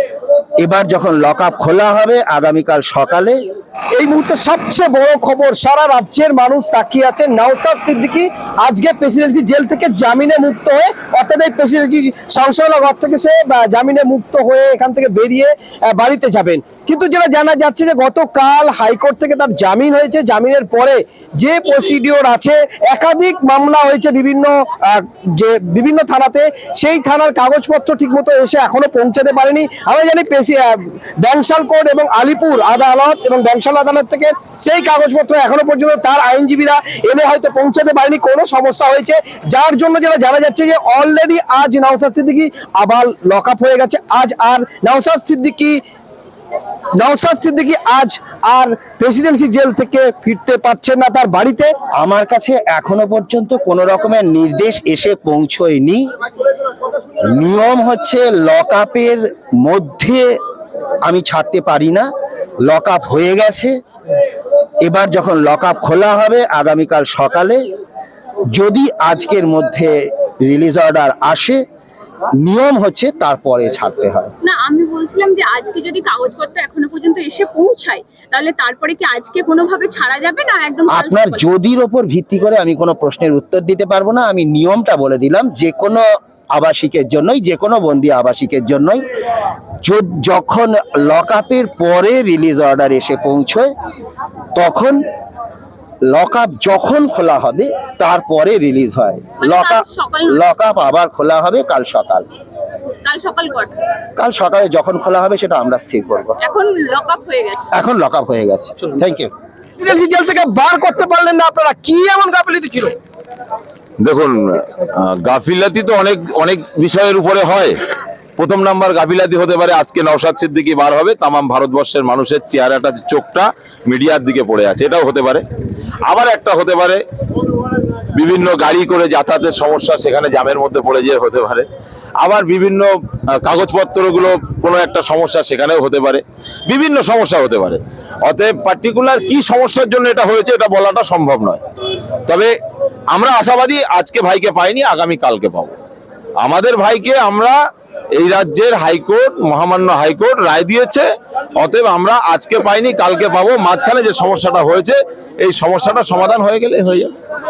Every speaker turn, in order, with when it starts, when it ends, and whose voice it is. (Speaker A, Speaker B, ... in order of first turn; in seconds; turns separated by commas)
Speaker A: 0.6-3.4, Speaker B: 3.9-45.8, Speaker B: 47.0-51.8, Speaker A: 52.0-56.1, Speaker A: 57.3-60.4, Speaker A: 61.0-62.1, Speaker A: 62.6-63.8, Speaker A: 64.8-67.7, Speaker A: 68.5-71.6, Speaker A: 72.4-74.3, Speaker C: 74.4-81.5, Speaker A: 80.9-89.0, Speaker A: 89.8-93.7, Speaker A: 94.5-95.0, Speaker A: 96.1-102.3, Speaker C: 99.4-100.4, Speaker C: 102.9-103.8, Speaker A: 104.2-106.4, Speaker C: 106.4-107.7, Speaker A: 107.7-109.3, Speaker B: 109.8-113.0, Speaker D: 114.0-117.8, Speaker D: 118.4-125.4, Speaker D: 126.0-127.0, Speaker D: 128.1-131.7, Speaker D: 132.2-141.6, Speaker D: 142.3-142.5, Speaker D: 143.1-145.8, Speaker D: 146.4-147.6, Speaker D: 148.2-157.1